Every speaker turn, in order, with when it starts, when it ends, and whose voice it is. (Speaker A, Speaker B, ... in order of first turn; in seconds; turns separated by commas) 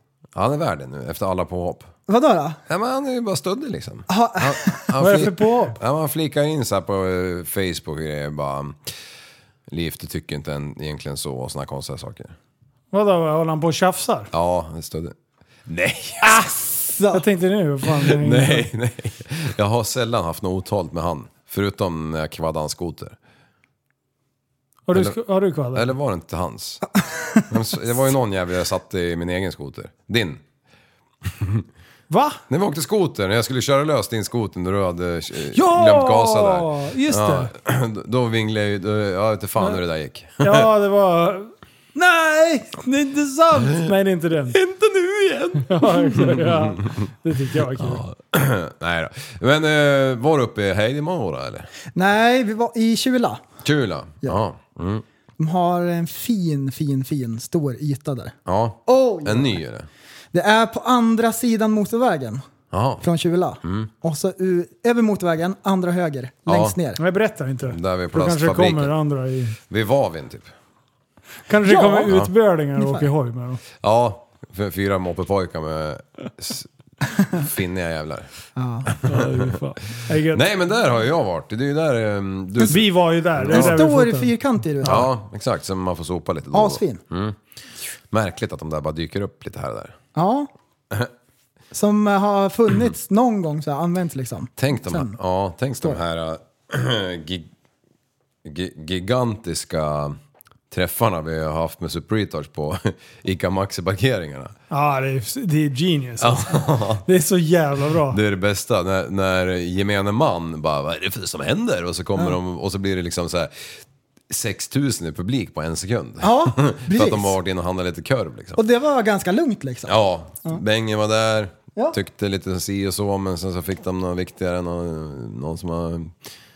Speaker A: 0.3-1.9, Speaker B: 2.1-2.6, Speaker A: 2.7-8.8, Speaker B: 4.1-4.9, Speaker C: 5.0-5.8, Speaker A: 9.7-12.3, Speaker C: 12.9-14.3, Speaker A: 14.3-15.2, Speaker A: 15.7-16.5, Speaker B: 16.2-17.2, Speaker C: 17.1-18.7, Speaker A: 17.9-23.2, Speaker C: 24.9-25.9, Speaker A: 24.9-25.2, Speaker A: 25.7-26.8, Speaker A: 27.5-30.4, Speaker A: 31.2-31.7, Speaker C: 32.1-32.4, Speaker A: 32.5-40.7, Speaker C: 35.5-37.5, Speaker C: 40.4-44.6, Speaker A: 44.5-47.0, Speaker C: 45.6-48.0, Speaker A: 47.7-51.7, Speaker B: 51.9-53.4, Speaker A: 53.6-55.0, Speaker B: 55.4-58.4, Speaker A: 58.5-59.9, Speaker B: 58.9-59.6, Speaker B: 60.3-62.5, Speaker A: 62.7-63.0, Speaker B: 63.0-67.0, Speaker A: 63.6-63.9, Speaker A: 66.5-66.8, Speaker C: 67.0-69.6, Speaker A: 67.7-69.0, Speaker A: 69.7-70.5, Speaker C: 71.5-73.6, Speaker B: 71.7-72.1, Speaker B: 72.8-73.1, Speaker A: 73.8-76.7, Speaker A: 77.3-78.3, Speaker B: 78.6-78.9, Speaker A: 78.9-79.5, Speaker C: 79.0-80.4, Speaker A: 80.1-83.8, Speaker C: 82.7-85.1, Speaker B: 83.5-85.1, Speaker A: 84.8-87.4, Speaker B: 86.5-87.0, Speaker A: 88.1-90.0, Speaker B: 90.2-90.5, Speaker B: 91.7-95.1, Speaker A: 94.6-97.5, Speaker A: 98.4-100.2, Speaker A: 100.7-104.5, Speaker C: 104.7-108.2, Speaker A: 106.2-107.0, Speaker A: 108.1-113.7, Speaker A: 114.3-118.6, Speaker B: 116.2-117.3, Speaker B: 118.6-120.6, Speaker A: 119.9-126.2